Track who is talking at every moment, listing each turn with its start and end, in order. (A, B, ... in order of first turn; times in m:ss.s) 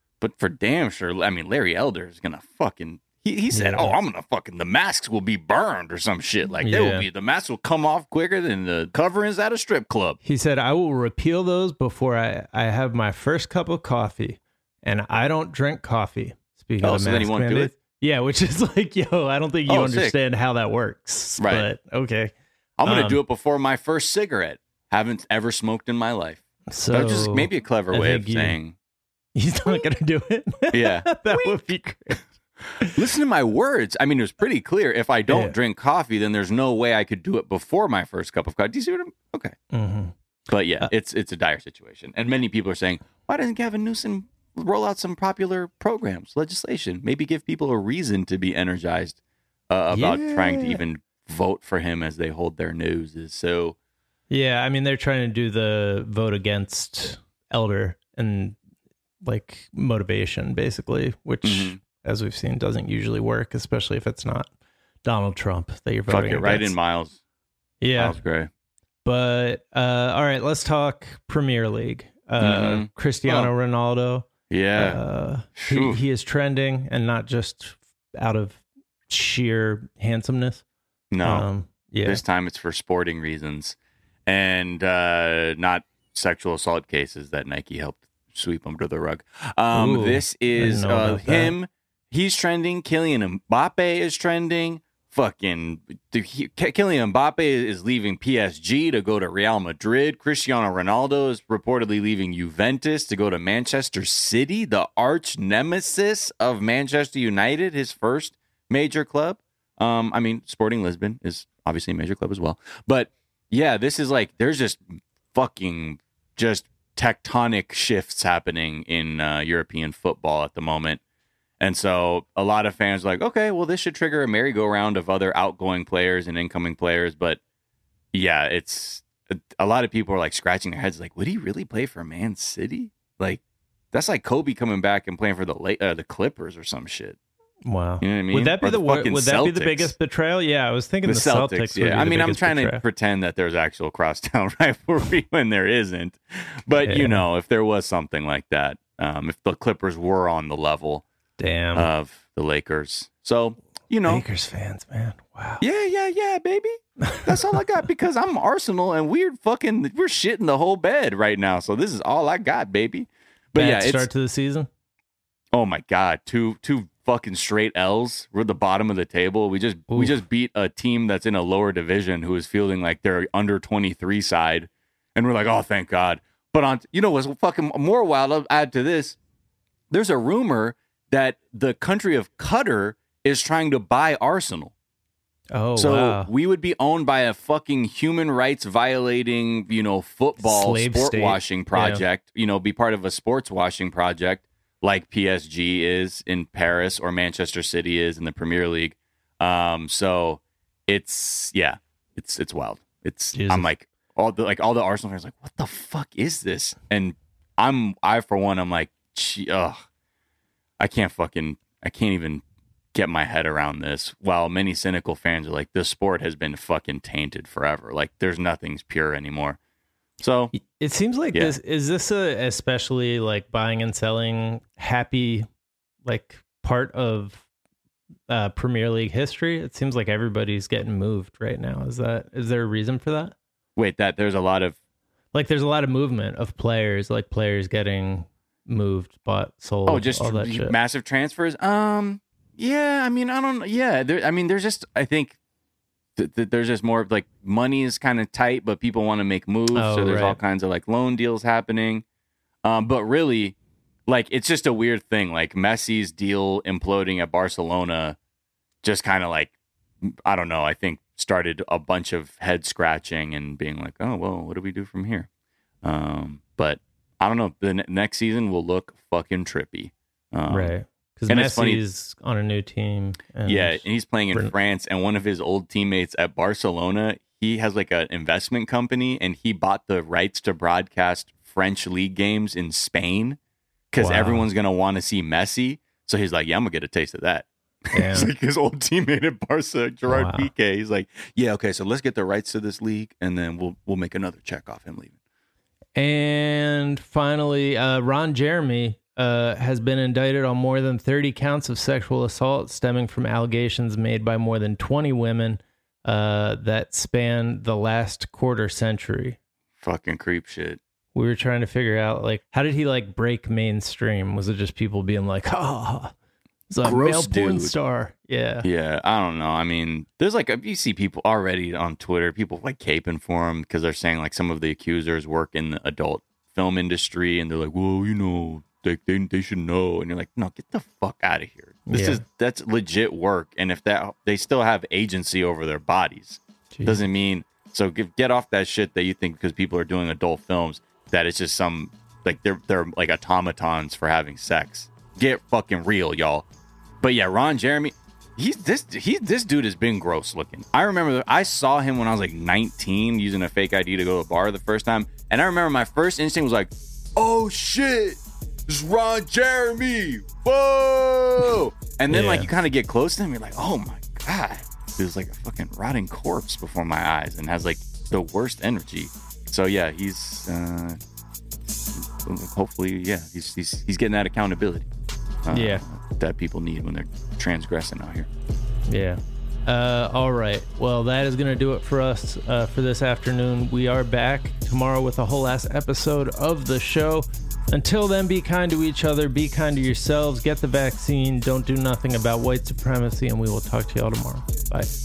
0:00.2-0:10.2 A
0:03.5-0:04.0 B
0:06.6-0:07.1 B
0:10.2-0:22.3 B
0:16.8-0:17.7 A
0:19.7-0:20.2 A
0:21.4-0:21.7 A
0:22.8-0:28.7 A
0:22.8-0:23.2 B
0:26.7-0:28.6 B
0:29.3-0:33.0 B
0:30.7-0:31.6 A
0:32.9-0:39.5 A
0:35.3-0:35.5 B
0:39.7-0:40.1 B
0:40.5-0:53.8 A
0:49.9-0:50.8 B
0:54.3-0:58.6 B
0:59.2-1:04.5 B
1:01.4-1:01.8 A
1:05.0-1:06.7 B
1:06.1-1:07.2 A
1:07.8-1:08.2 B
1:08.0-1:08.5 A
1:09.0-1:20.6 B
1:12.4-1:13.5 A
1:14.5-1:15.0 A
1:15.6-1:16.0 A
1:21.1-1:21.4 A
1:21.2-1:22.2 B
1:22.0-2:01.0 A
1:29.7-1:31.6 B
2:01.6-2:07.4 A
2:08.1-2:17.2 A
2:17.6-2:22.8 B
2:18.0-2:19.9 A
2:21.0-2:31.0 A
2:26.8-2:27.2 B
2:31.4-2:31.9 B
2:31.7-2:34.2 A
2:34.0-2:35.6 B
2:35.6-2:44.1 A
2:37.0-2:37.6 B
2:43.6-2:44.7 B
2:45.5-2:59.2 A
2:49.9-2:50.2 B
2:59.9-3:04.7 A
3:05.5-3:06.3 B
3:05.8-3:29.8 A
3:10.4-3:12.0 B
3:23.3-3:23.7 B
3:30.8-3:32.4 A
3:32.9-3:39.6 A
3:40.2-3:40.5 A
3:40.5-3:45.5 B
3:46.0-3:47.4 B
3:48.3-3:53.3 B
3:53.8-3:54.8 A
3:55.3-4:00.7 B
3:59.9-4:05.4 A
4:06.2-4:12.0 A
4:09.7-4:10.4 B
4:12.6-4:13.6 A
4:14.1-4:18.2 A
4:18.8-4:25.3 A
4:25.8-4:30.7 A
4:30.5-4:34.5 B
4:31.3-4:31.8 A
4:33.4-4:43.4 A
4:43.9-4:55.1 A
4:44.0-4:44.5 B
4:47.9-4:48.3 B
4:50.1-4:50.5 B
4:56.0-5:09.4 B
5:09.8-5:10.8 A
5:11.1-5:16.1 B
5:16.7-5:18.7 B
5:16.8-5:17.7 A
5:18.6-5:46.4 A
5:31.9-5:32.2 B
5:36.7-5:37.0 B
5:47.0-6:11.0 A
6:02.1-6:02.5 B
6:12.0-6:14.9 A
6:15.4-6:18.3 A
6:15.5-6:15.8 B
6:18.9-6:34.9 B